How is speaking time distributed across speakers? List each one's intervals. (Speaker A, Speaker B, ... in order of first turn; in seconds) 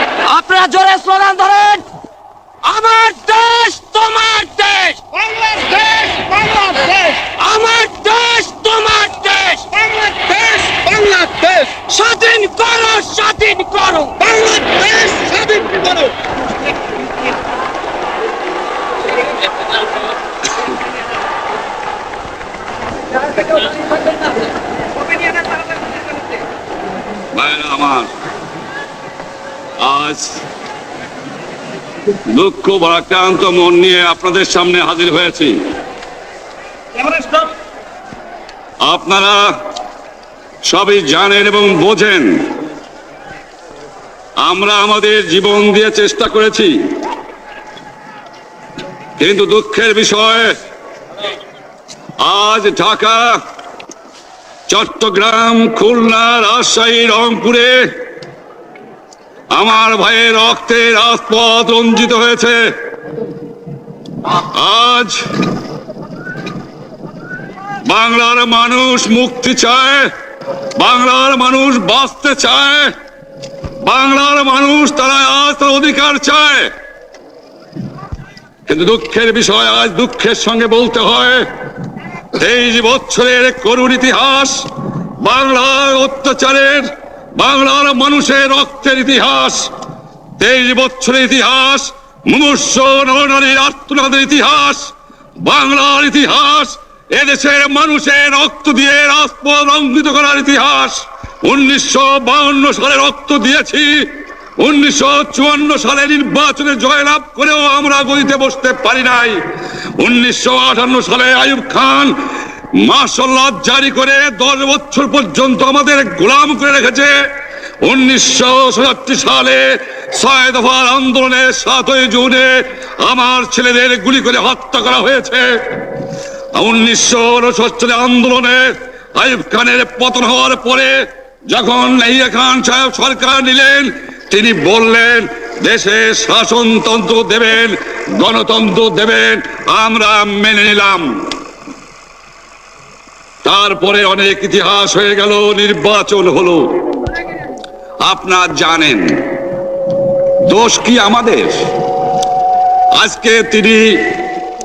Speaker A: 0.2-1.9, 2.6-5.0, 7.3-9.8, 11.8-14.3
Speaker B: 5.2-7.3, 9.8-11.8, 14.2-16.1
Speaker C: 27.3-28.1, 29.8-30.4, 32.3-35.6, 38.8-39.5, 40.6-42.5, 44.4-46.8, 49.2-50.5, 52.2-53.4, 54.7-57.9, 59.5-62.7, 64.2-65.2, 67.9-70.1, 70.8-72.9, 73.8-76.7, 78.7-81.5, 82.3-84.7, 85.2-89.7, 90.4-109.4, 110.0-112.1, 112.7-117.1, 117.8-125.8, 126.5-131.0, 131.5-141.3, 143.4-146.8, 148.0-149.1, 150.5-151.6, 153.0-154.2